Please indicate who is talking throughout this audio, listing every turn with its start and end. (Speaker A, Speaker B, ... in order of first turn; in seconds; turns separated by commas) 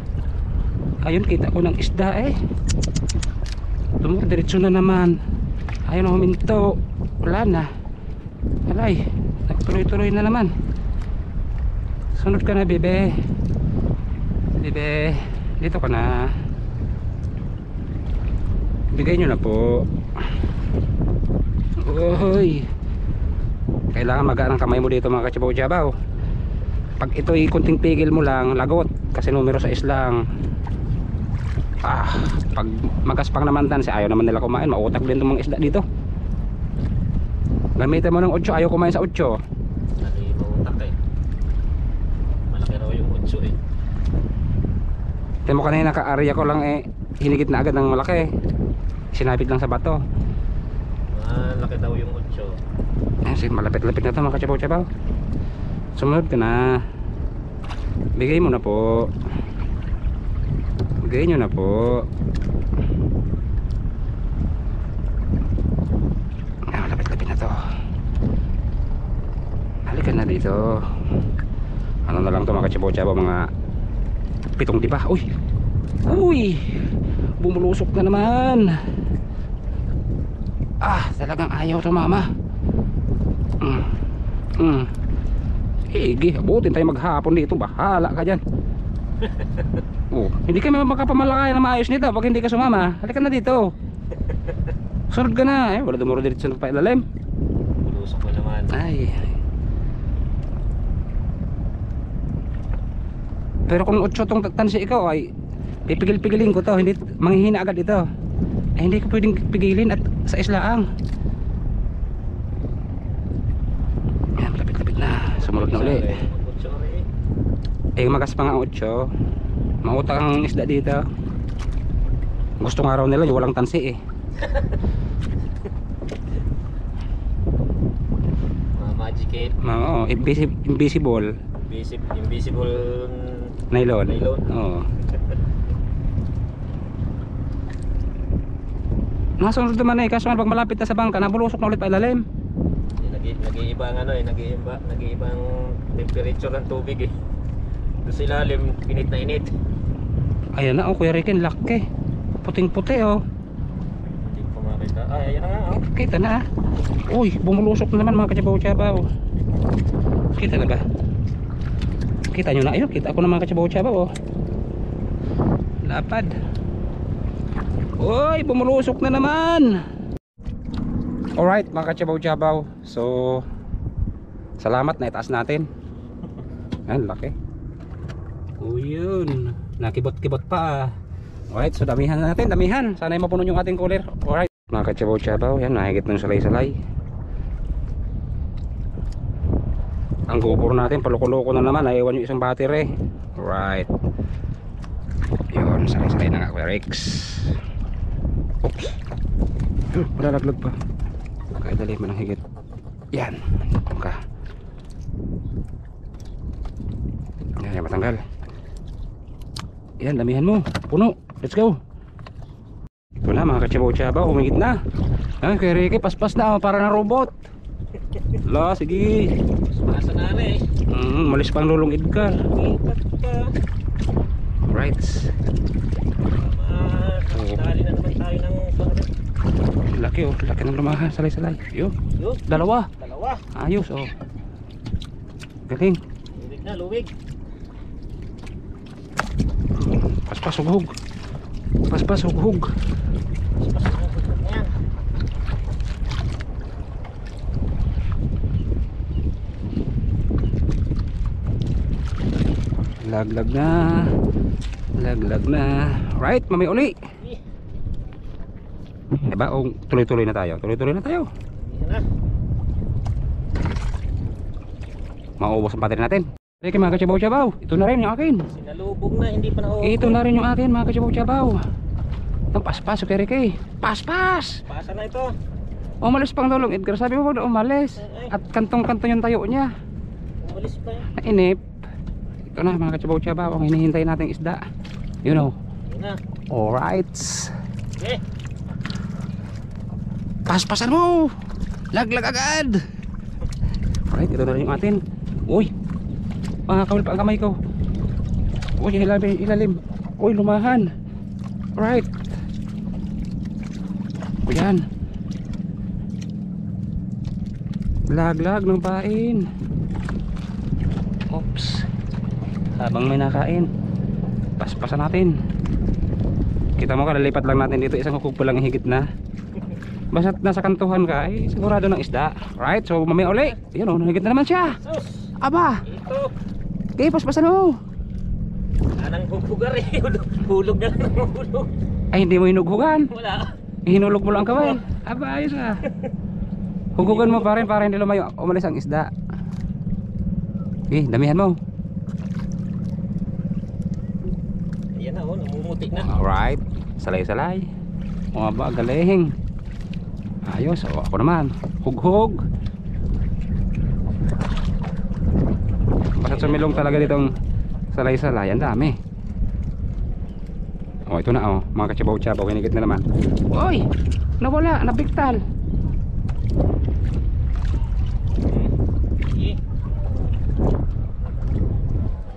Speaker A: 1.0-2.4, Speaker A: 4.0-5.2, Speaker A: 5.9-7.7, Speaker A: 8.7-10.5, Speaker A: 12.2-13.1, Speaker A: 14.6-16.3, Speaker A: 18.9-19.9, Speaker A: 21.8-22.7, Speaker A: 23.9-25.9, Speaker A: 27.0-30.2, Speaker A: 31.8-35.9, Speaker A: 37.8-39.4, Speaker B: 40.0-41.0, Speaker B: 42.5-43.6, Speaker A: 45.5-48.3, Speaker A: 49.1-50.0, Speaker B: 51.1-52.6, Speaker A: 53.3-54.9, Speaker A: 56.0-56.8, Speaker A: 58.2-59.1, Speaker A: 61.0-62.1, Speaker A: 66.7-67.6, Speaker A: 69.9-70.9, Speaker A: 72.1-73.5, Speaker A: 74.6-75.3, Speaker A: 76.0-78.8, Speaker A: 80.8-82.3, Speaker A: 83.6-83.9, Speaker A: 84.6-84.9, Speaker A: 85.9-88.4, Speaker B: 89.2-89.8, Speaker A: 90.1-93.7, Speaker B: 94.1-94.7, Speaker A: 95.1-97.0, Speaker B: 97.8-98.8, Speaker A: 98.7-99.3, Speaker A: 103.7-105.3, Speaker A: 105.9-108.0, Speaker A: 108.8-110.9, Speaker A: 114.4-116.1, Speaker B: 115.0-117.1, Speaker A: 118.0-119.1, Speaker A: 119.8-121.0, Speaker A: 122.6-124.0, Speaker B: 124.4-124.8, Speaker B: 128.8-129.6, Speaker A: 129.6-131.3, Speaker B: 131.7-134.5, Speaker A: 133.7-134.9, Speaker B: 135.1-135.4, Speaker A: 139.4-142.2, Speaker B: 143.0-147.1, Speaker B: 148.0-149.5, Speaker A: 150.6-151.8, Speaker A: 152.4-153.2, Speaker B: 154.2-155.8, Speaker A: 155.8-156.4, Speaker A: 157.1-159.1, Speaker A: 160.3-160.9, Speaker A: 162.3-164.1, Speaker A: 165.8-166.4, Speaker A: 168.0-169.8, Speaker A: 171.4-173.5, Speaker A: 174.6-175.7, Speaker A: 176.9-177.3, Speaker A: 178.6-180.9, Speaker A: 181.5-186.8, Speaker A: 190.3-193.9, Speaker A: 195.5-197.6, Speaker A: 198.6-199.0, Speaker A: 199.9-200.8, Speaker A: 201.6-202.4, Speaker A: 203.1-204.2, Speaker A: 207.6-208.2, Speaker A: 210.0-211.8, Speaker A: 213.2-214.8, Speaker A: 215.4-217.4, Speaker A: 218.4-219.3, Speaker B: 219.8-220.6, Speaker A: 220.9-222.4, Speaker B: 222.2-223.5, Speaker A: 224.7-225.3, Speaker B: 226.3-229.1, Speaker A: 227.3-227.6, Speaker A: 229.9-231.9, Speaker B: 232.2-233.4, Speaker A: 232.5-232.9, Speaker A: 233.6-234.1, Speaker A: 235.7-236.0, Speaker B: 236.4-237.1, Speaker A: 239.8-241.0, Speaker A: 241.9-242.7, Speaker B: 243.6-244.7, Speaker A: 253.0-254.1, Speaker A: 255.0-257.0, Speaker A: 259.1-261.3, Speaker B: 261.6-262.0, Speaker A: 265.4-268.5, Speaker B: 268.5-270.2, Speaker A: 269.8-271.6, Speaker A: 272.5-274.6, Speaker B: 274.7-275.3, Speaker A: 276.0-279.7, Speaker B: 278.0-278.4, Speaker B: 280.4-281.1, Speaker A: 281.1-281.6, Speaker A: 282.5-284.6, Speaker A: 285.2-285.6, Speaker B: 285.9-286.2, Speaker A: 286.5-287.6, Speaker B: 288.0-288.2, Speaker A: 290.5-291.4, Speaker A: 291.9-292.9, Speaker A: 294.1-295.7, Speaker A: 296.7-297.6, Speaker A: 298.8-300.9, Speaker A: 301.8-302.2, Speaker A: 304.5-304.9, Speaker A: 308.1-309.5, Speaker A: 311.3-311.9, Speaker A: 312.8-313.7, Speaker A: 314.6-315.4, Speaker A: 316.8-319.1, Speaker A: 320.1-324.8, Speaker B: 324.8-326.3, Speaker A: 325.4-325.8, Speaker A: 327.0-327.8, Speaker B: 329.0-331.7, Speaker A: 332.1-333.1, Speaker B: 333.1-333.6, Speaker A: 333.9-335.9, Speaker B: 334.4-334.8, Speaker B: 335.9-336.1, Speaker A: 337.0-339.1, Speaker B: 337.0-337.7, Speaker A: 340.9-341.6, Speaker B: 345.0-346.1, Speaker A: 346.0-347.7, Speaker A: 348.3-349.3, Speaker A: 350.4-352.4, Speaker A: 356.2-357.3, Speaker B: 356.2-357.2, Speaker A: 357.9-359.0, Speaker A: 361.1-363.9, Speaker A: 364.4-365.4, Speaker B: 368.4-368.7, Speaker B: 369.3-369.6